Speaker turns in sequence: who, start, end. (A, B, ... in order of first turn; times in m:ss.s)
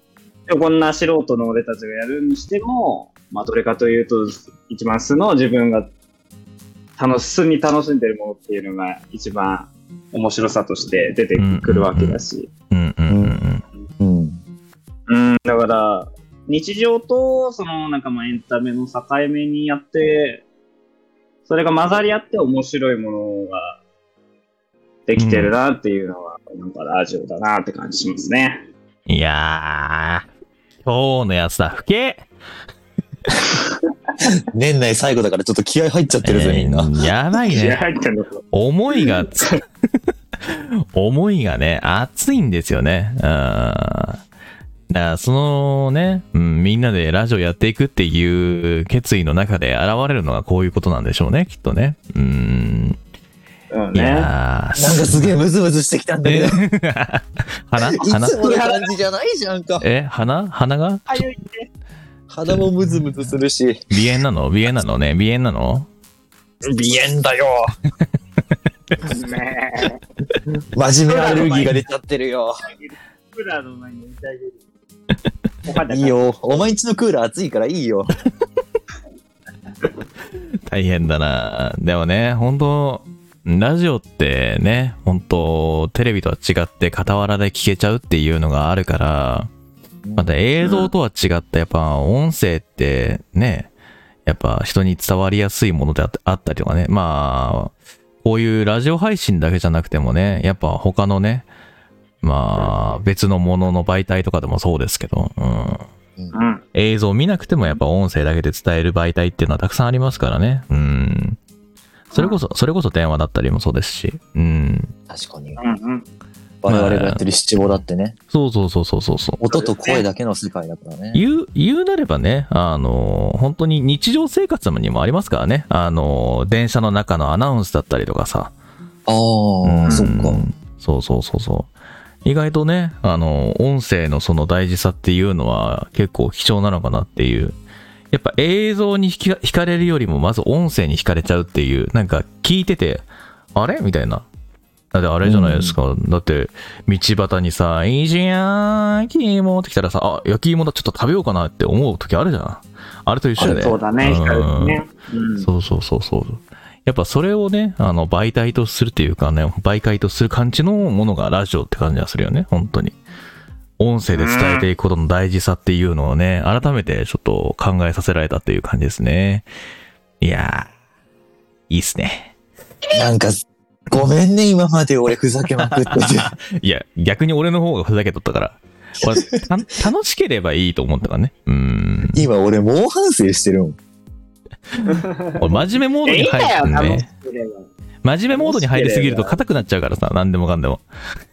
0:00.5-0:05.9 A
0:07.0-0:12.5 A
0:11.4-0:13.6 B
0:13.1-0:13.4 C
0:14.0-0:14.4 C
0:15.1-0:20.4 A
0:21.5-0:23.8 A
0:25.1-0:28.7 A
0:25.2-0:25.5 B
0:29.1-0:30.2 B
0:30.8-0:32.3 B
0:33.4-0:33.8 A
0:34.2-0:36.9 C
0:36.2-0:37.8 B
0:37.4-0:38.4 A
0:38.5-0:39.6 B
0:38.9-0:39.6 A
0:40.4-0:44.2 B
0:44.9-0:53.0 B
0:53.7-0:54.3 A
0:53.9-0:55.3 B
0:54.8-0:56.6 C
0:56.2-0:58.5 B
0:57.8-0:59.9 C
0:58.2-0:58.9 A
0:59.8-1:01.2 B
1:01.1-1:01.7 A
1:02.3-1:03.8 C
1:03.9-1:05.9 B
1:06.6-1:07.8 A
1:09.0-1:10.0 A
1:10.7-1:12.6 C
1:11.1-1:11.8 A
1:12.6-1:14.6 A
1:15.7-1:16.6 A
1:15.9-1:18.1 C
1:20.7-1:29.5 B
1:30.0-1:30.3 C
1:30.2-1:33.7 B
1:34.3-1:41.5 B
1:42.2-1:45.8 B
1:46.3-1:46.6 A
1:46.8-1:51.4 B
1:52.1-1:54.9 B
1:55.1-1:55.6 C
1:55.6-1:56.1 A
1:56.6-1:58.2 C
1:56.7-1:57.8 B
1:58.3-1:59.4 B
1:59.4-2:01.2 C
1:59.5-2:00.0 A
2:01.1-2:08.5 B
2:09.1-2:10.4 C
2:09.6-2:11.7 B
2:12.2-2:17.6 B
2:18.1-2:24.3 B
2:24.9-2:34.8 B
2:25.2-2:25.8 C
2:33.4-2:35.5 A
2:35.4-2:43.0 B
2:43.8-2:49.5 B
2:44.1-2:44.7 A
2:50.2-2:50.7 B
2:51.7-2:52.3 B
2:52.9-2:56.3 C
2:55.9-3:02.3 B
3:02.1-3:03.8 C
3:04.8-3:07.1 B
3:04.9-3:07.7 A
3:08.0-3:10.8 B
3:08.3-3:09.4 A